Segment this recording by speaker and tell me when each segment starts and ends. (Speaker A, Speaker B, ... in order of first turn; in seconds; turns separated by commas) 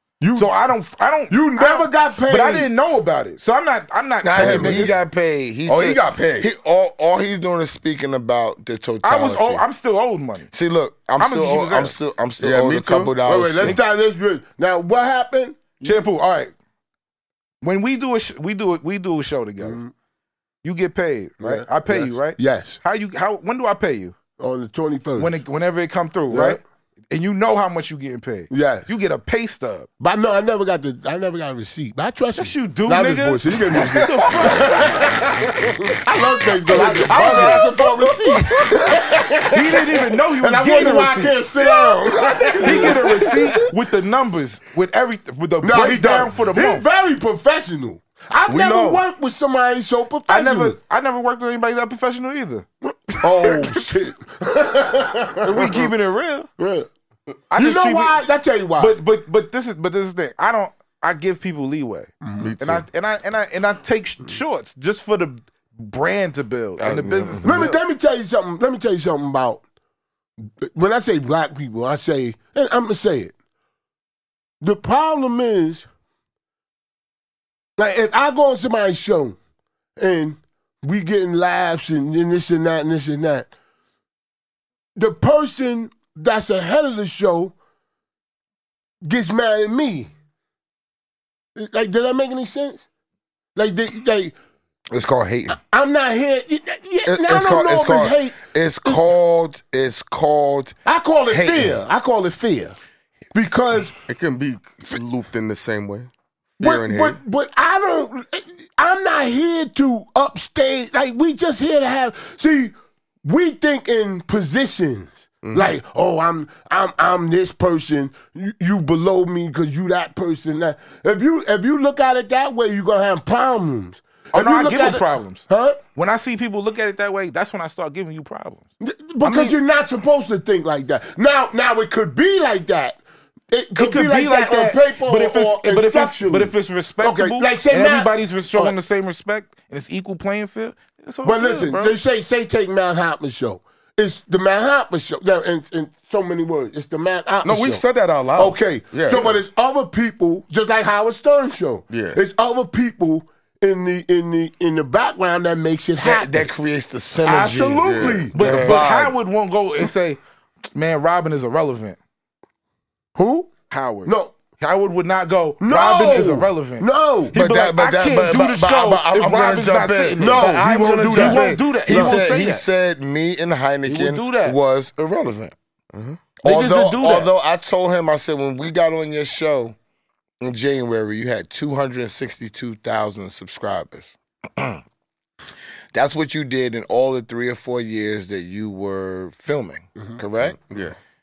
Speaker A: 0.2-0.5, Speaker B: 0.3-5.0, Speaker A: 1.3-2.7, Speaker C: 4.2-9.6, Speaker A: 4.4-4.8, Speaker D: 4.4-4.7, Speaker D: 5.7-6.5, Speaker B: 9.0-10.5, Speaker C: 10.5-13.8, Speaker B: 11.2-11.9, Speaker D: 12.4-13.7, Speaker A: 13.2-16.0, Speaker B: 15.8-16.5, Speaker B: 17.6-19.8, Speaker A: 19.6-19.9, Speaker B: 20.6-24.1, Speaker A: 21.4-22.8, Speaker A: 24.4-25.3, Speaker B: 25.2-29.9, Speaker A: 26.3-26.6, Speaker A: 28.5-28.9, Speaker A: 30.0-43.4, Speaker B: 32.4-35.3, Speaker B: 36.6-38.1, Speaker D: 37.2-38.9, Speaker B: 39.5-41.4, Speaker D: 41.6-43.5, Speaker B: 42.6-46.9, Speaker A: 45.6-50.8, Speaker D: 48.5-49.0, Speaker B: 50.3-52.6, Speaker A: 53.2-55.9, Speaker B: 55.4-56.5, Speaker A: 56.6-56.9, Speaker B: 57.5-58.2, Speaker A: 57.5-59.0, Speaker B: 58.8-67.8, Speaker D: 62.4-62.8, Speaker C: 66.8-67.5, Speaker A: 67.4-69.6, Speaker A: 70.6-73.3, Speaker A: 74.6-75.9, Speaker A: 77.8-79.3, Speaker A: 80.0-83.5, Speaker A: 85.0-87.5, Speaker A: 89.0-90.1, Speaker A: 91.5-92.8, Speaker A: 93.5-94.3, Speaker C: 94.9-95.6, Speaker A: 95.5-99.0, Speaker C: 97.0-100.8, Speaker A: 100.8-102.8, Speaker C: 101.3-101.8, Speaker A: 103.3-104.0, Speaker D: 104.1-107.2, Speaker A: 106.6-125.8, Speaker D: 115.4-115.7, Speaker B: 124.3-128.6, Speaker A: 128.8-138.7, Speaker D: 129.2-129.6, Speaker B: 133.8-141.9, Speaker A: 141.2-147.8, Speaker D: 147.4-149.4, Speaker A: 148.3-156.4, Speaker D: 151.9-152.2, Speaker C: 156.0-158.9, Speaker A: 157.2-158.4, Speaker D: 157.8-159.1, Speaker B: 158.3-160.2, Speaker B: 160.7-162.0, Speaker A: 163.2-163.5, Speaker B: 163.7-172.6, Speaker A: 164.1-164.3, Speaker A: 165.6-167.3, Speaker C: 167.3-175.5, Speaker A: 170.2-172.2, Speaker B: 173.8-174.6, Speaker D: 175.9-176.3, Speaker C: 176.3-179.8, Speaker B: 176.4-177.3, Speaker C: 180.4-184.8, Speaker C: 185.9-190.6, Speaker D: 190.6-191.0